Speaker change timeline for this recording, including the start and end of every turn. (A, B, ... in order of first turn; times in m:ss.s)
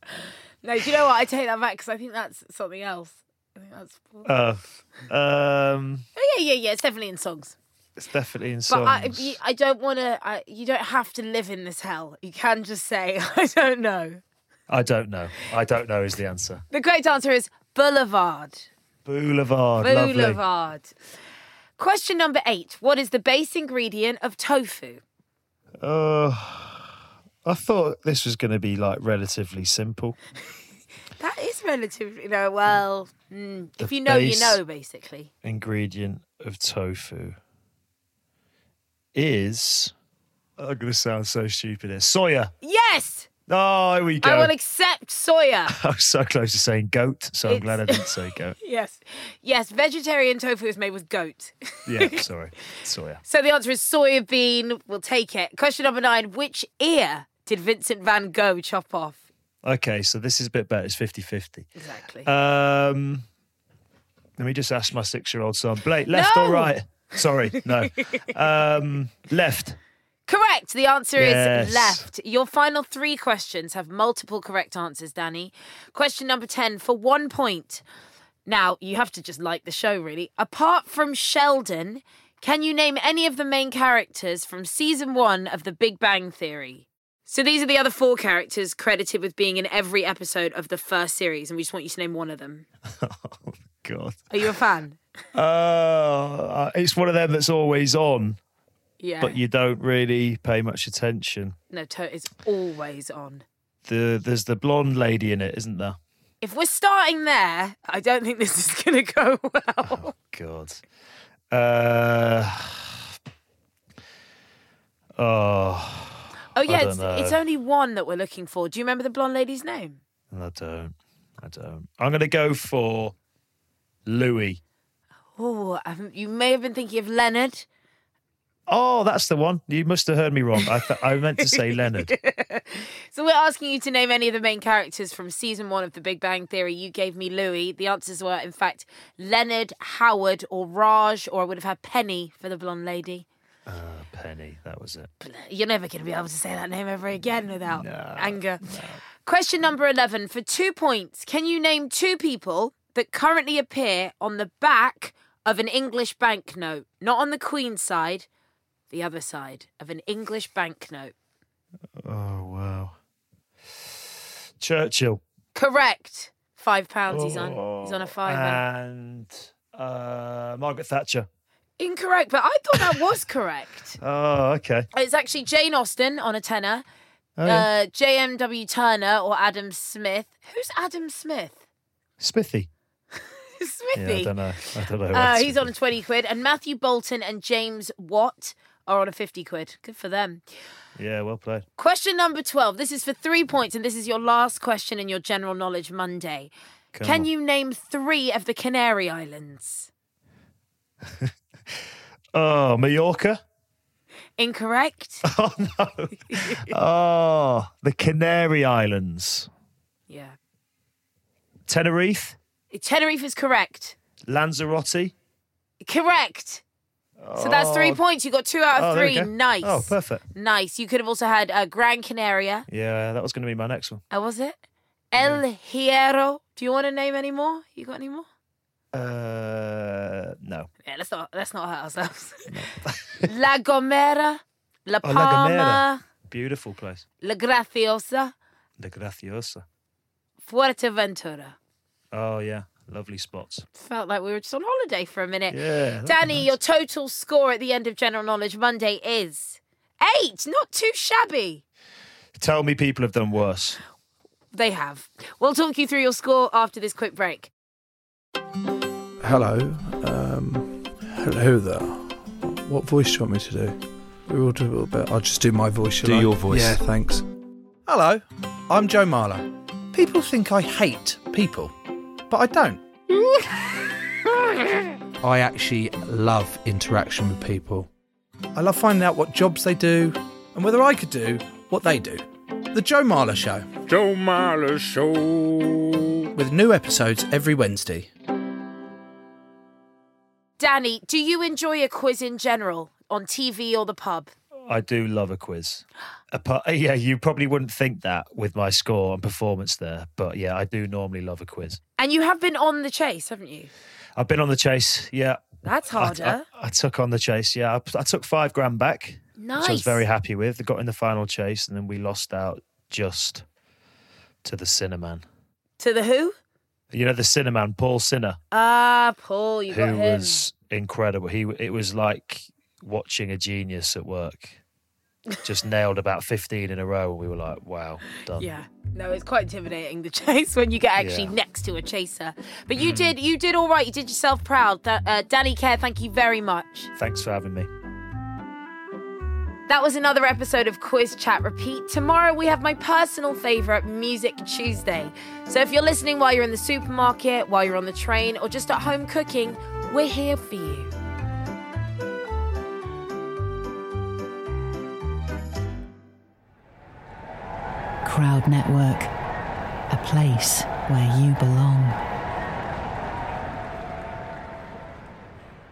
0:00.6-0:04.3 A
0:04.2-0:06.1 B
0:06.2-0:07.6 A
0:08.0-0:09.4 B
0:08.7-0:14.2 A
0:14.7-0:16.6 B
0:16.7-0:18.7 A
0:19.0-0:20.4 B
0:19.8-0:20.9 A
0:21.8-0:25.0 A
0:25.8-0:26.9 B
0:27.4-0:30.2 B
0:31.2-0:35.3 A
0:33.8-0:34.6 B
0:35.4-0:37.4 B
0:39.1-0:39.9 B
0:40.6-0:42.5 B
0:42.6-0:43.3 A
0:43.5-0:44.5 B
0:44.2-0:45.7 A
0:45.7-0:48.6 B
0:47.5-0:52.2 A
0:51.9-0:53.2 B
0:53.2-0:59.2 A
0:59.6-1:01.7 B
1:01.8-1:02.3 A
1:02.2-1:03.2 B
1:04.4-1:09.8 B
1:06.1-1:06.7 A
1:10.3-1:17.8 A
1:11.2-1:12.1 B
1:18.4-1:32.7 A
1:33.0-1:34.2 B
1:34.3-1:35.0 A
1:35.4-1:38.4 B
1:39.0-1:39.4 A
1:39.2-1:41.6 B
1:41.7-1:43.4 A
1:43.9-1:46.0 B
1:46.4-1:50.1 A
1:49.8-1:50.8 B
1:51.5-1:53.0 B
1:55.2-1:57.4 B
1:56.6-2:00.0 A
2:00.3-2:03.1 B
2:04.1-2:04.6 B
2:05.4-2:07.7 A
2:08.7-2:12.1 B
2:11.4-2:23.3 A
2:23.7-2:25.1 B
2:25.2-2:28.6 A
2:27.7-2:29.0 B
2:29.2-2:38.3 A
2:38.9-2:41.1 A
2:42.0-2:42.9 B
2:44.6-2:45.2 B
2:45.5-2:48.6 A
2:47.1-2:51.3 B
2:51.8-2:54.0 A
2:52.8-2:53.0 B
2:54.0-2:54.9 B
2:54.9-2:56.9 A
2:57.4-2:57.7 B
2:57.4-3:01.6 A
3:02.2-3:02.7 B
3:03.6-3:10.4 A
3:03.9-3:05.7 B
3:11.0-3:11.6 B
3:11.8-3:19.9 A
3:16.9-3:17.3 B
3:22.3-3:23.4 B
3:24.4-3:25.2 A
3:25.2-3:29.5 B
3:26.3-3:26.7 A
3:30.1-3:30.4 A
3:31.7-3:32.4 B
3:32.7-3:34.0 A
3:34.3-3:35.1 B
3:35.8-3:36.6 A
3:37.2-3:38.0 B
3:37.4-3:42.7 A
3:38.7-3:40.2 B
3:42.7-3:44.0 B
3:44.1-3:44.6 A
3:45.1-3:48.3 A
3:48.9-3:50.7 B
3:50.8-3:52.5 A
3:52.5-3:53.3 B
3:53.2-3:56.0 A
3:55.0-3:57.0 B
3:57.2-3:58.3 A
3:58.8-3:59.6 B
4:00.4-4:01.6 A
4:02.1-4:03.6 B
4:03.7-4:11.6 A
4:05.5-4:06.5 B
4:12.4-4:13.8 B
4:14.5-4:17.5 A
4:19.2-4:27.3 C
4:26.0-4:26.8 D
4:27.8-4:31.8 C
4:32.3-4:32.8 C
4:35.2-4:37.9 C
4:38.6-4:43.8 C
4:43.9-4:46.2 D
4:46.3-4:48.1 C
4:50.6-4:54.3 A
4:54.7-5:01.8 B
5:02.0-5:03.7 A
5:04.2-5:13.4 B
5:05.6-5:06.4 A
5:09.4-5:10.0 A
5:14.4-5:15.2 B
5:15.8-5:16.4 A
5:16.9-5:18.4 B
5:18.5-5:20.4 A
5:19.7-5:24.6 B
5:25.4-5:28.5 B
5:28.3-5:36.9 A
5:31.0-5:31.3 B
5:32.8-5:33.1 B
5:37.0-5:37.7 B
5:39.7-5:50.9 A
5:58.0-5:59.1 E
5:59.9-6:02.0 E